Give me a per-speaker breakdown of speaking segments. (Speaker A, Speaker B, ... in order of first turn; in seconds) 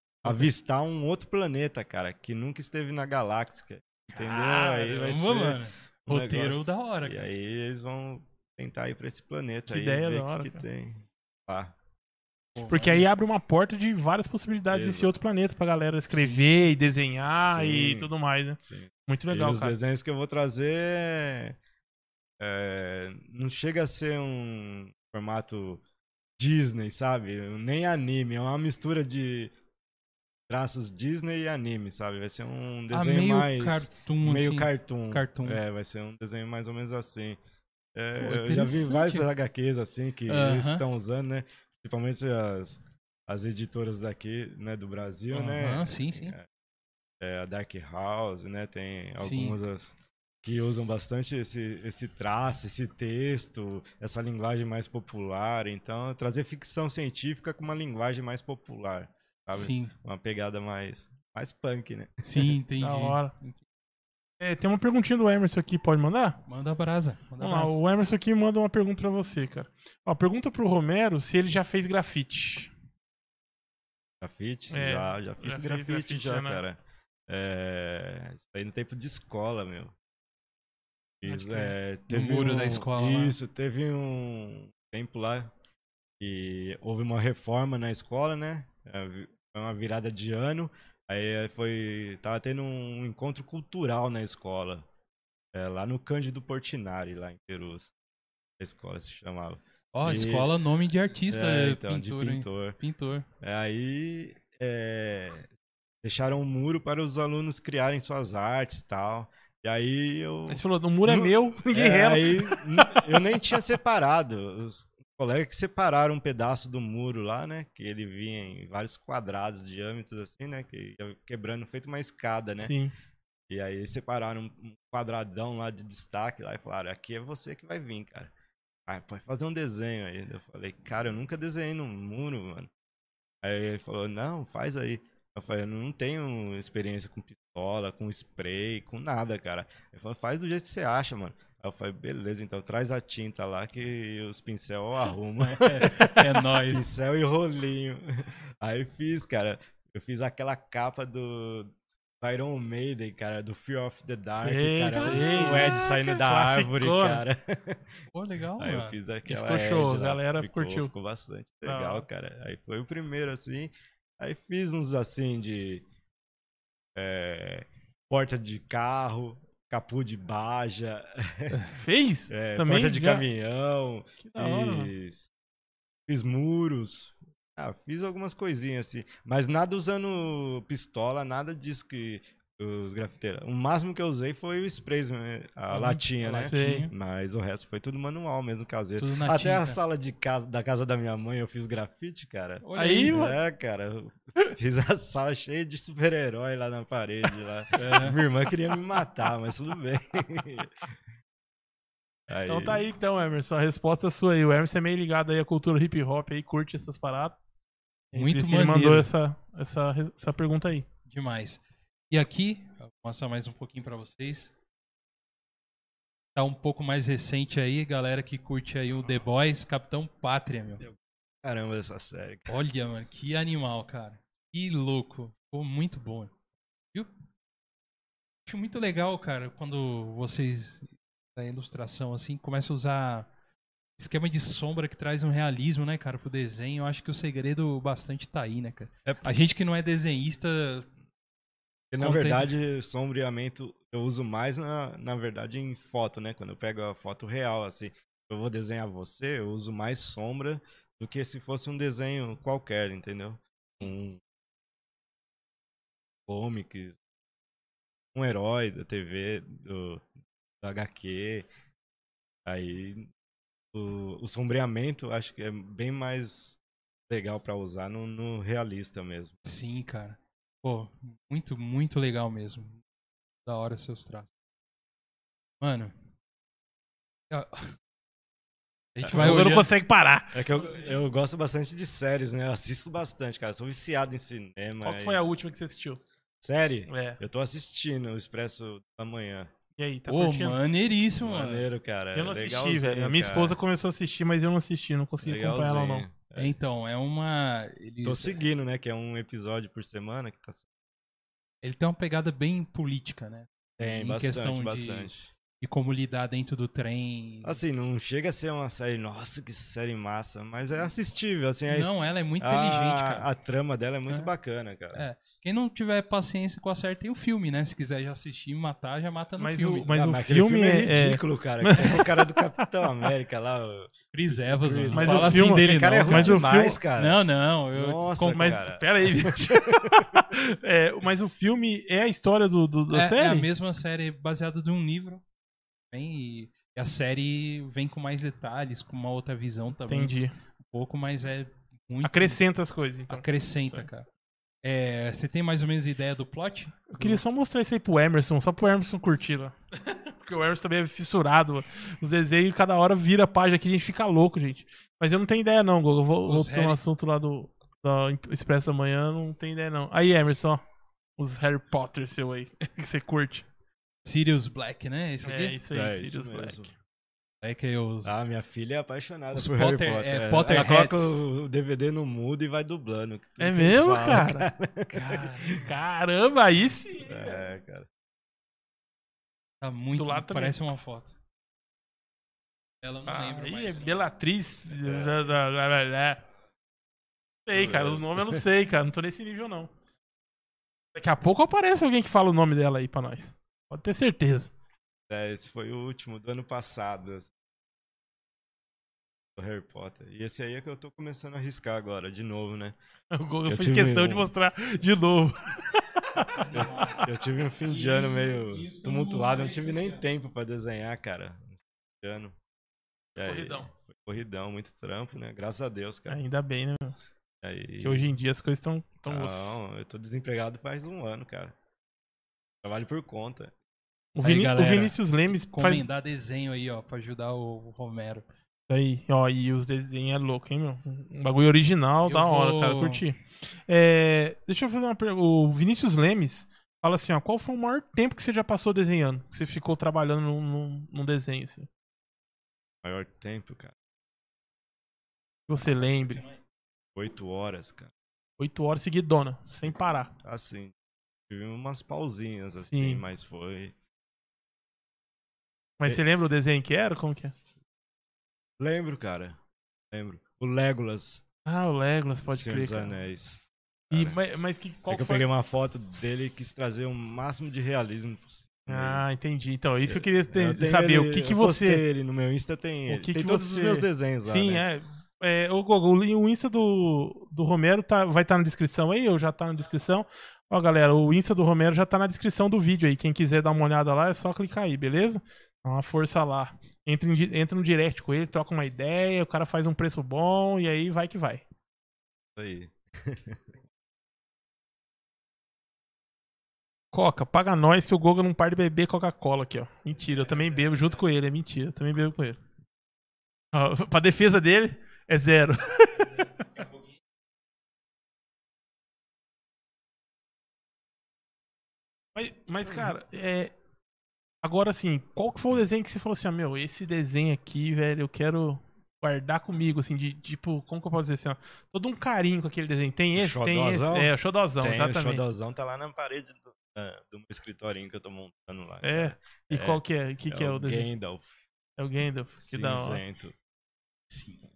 Speaker A: 0.2-11.7, 14.7-15.1, 17.4-18.1, 18.6-21.6, 22.4-25.8, 26.4-29.5, 30.5-37.4, 37.9-46.5, 47.2-62.5, 74.2-79.9, 81.2-85.5, 86.2-94.8, 95.5-97.9, 98.6-100.5, 101.3-102.8, 103.4-105.5, 106.0-122.7, 123.5-128.3, 128.9-132.7, 133.4-158.1, 158.6-165.8, 166.9-171.6, 172.3-175.3, 176.1-200.9, 202.3-202.9, 221.4-222.5, 239.1-239.3, 241.9-254.2, 256.3-257.0, 258.1-260.1, 260.6-261.5, 262.4-263.1, 263.7-269.4, 279.0-279.5, 280.3-285.2, 286.4-289.5, 291.2-293.6, 295.2-296.5, 298.0-300.6, 303.8-305.3, 307.4-315.0, 319.9-327.2, 327.7-330.2, 365.7-366.7, 368.0-375.6, 377.0-377.9, 384.7-385.3, 387.4-388.4, 395.1-397.3, 399.4-402.8, 403.4-404.3, 406.5-412.4, 413.1-416.2, 417.4-418.1, 419.1-421.5, 422.6-423.5, 442.8-443.7, 446.9-447.9, 449.6-450.7, 451.3-453.7, 458.6-459.4, 459.9-461.2, 462.3-464.2, 464.9-469.0, 469.8-474.6, 492.4-493.4, 523.1-531.3, 532.4-533.3
Speaker B: 4.1-7.3, 12.5-13.1, 32.9-35.6, 38.1-39.3, 40.3-40.8, 45.3-46.4, 49.2-49.6, 59.5-59.9, 62.2-63.6, 66.5-67.8, 82.1-83.3, 99.9-103.2, 145.4-146.9, 154.9-155.7, 158.1-159.0, 185.7-186.9, 189.0-189.8, 192.6-193.2, 197.7-198.2, 208.1-209.1, 211.1-214.5, 216.3-220.8, 222.5-226.3, 228.4-233.3, 234.0-240.9, 242.0-242.5, 269.4-272.8, 273.4-274.3, 275.6-275.9, 277.3-277.8, 278.9-279.7, 290.1-291.7, 296.4-298.4, 301.6-307.6, 311.7-313.3, 314.9-319.9, 324.1-328.6, 332.9-335.2, 335.9-342.4, 343.1-344.1, 344.6-347.2, 356.2-356.8, 364.0-365.6, 367.4-368.1, 369.3-371.2, 374.9-375.6, 379.6-381.1, 382.8-384.1, 406.4-407.1, 407.6-410.0, 424.2-428.2, 432.0-433.0, 534.1-534.4
Speaker C: 9.7-10.6, 12.7-19.8, 62.8-63.3, 64.4-66.4, 67.4-72.7, 74.7-76.6, 81.2-81.7, 110.5-113.2, 122.6-122.9, 154.4-157.2, 159.3-160.9, 161.6-162.1, 171.7-173.2, 174.2-174.9, 186.4-186.9, 192.8-193.4, 202.5-207.4, 208.1-210.8, 279.1-280.4, 284.8-286.0, 286.9-287.2, 289.8-290.6, 292.1-296.1, 319.4-322.3, 324.9-326.8, 328.3-333.5, 339.9-340.3, 342.0-343.9, 346.9-360.6, 361.2-363.4, 365.2-366.7, 373.4-374.4, 375.6-377.4, 379.9-380.6, 383.1-386.2, 387.5-389.7, 390.9-394.5, 403.1-407.0, 413.2-413.7, 416.1-416.9, 417.8-419.6, 424.1-425.8, 428.7-441.7, 445.5-446.2, 448.4-450.1, 452.7-453.0, 455.8-457.3, 461.4-462.9, 463.9-465.2, 468.7-471.8, 472.9-491.4, 496.9-502.4, 503.5-506.3, 512.1-513.5, 514.4-525.2, 528.8-530.9, 531.8-533.0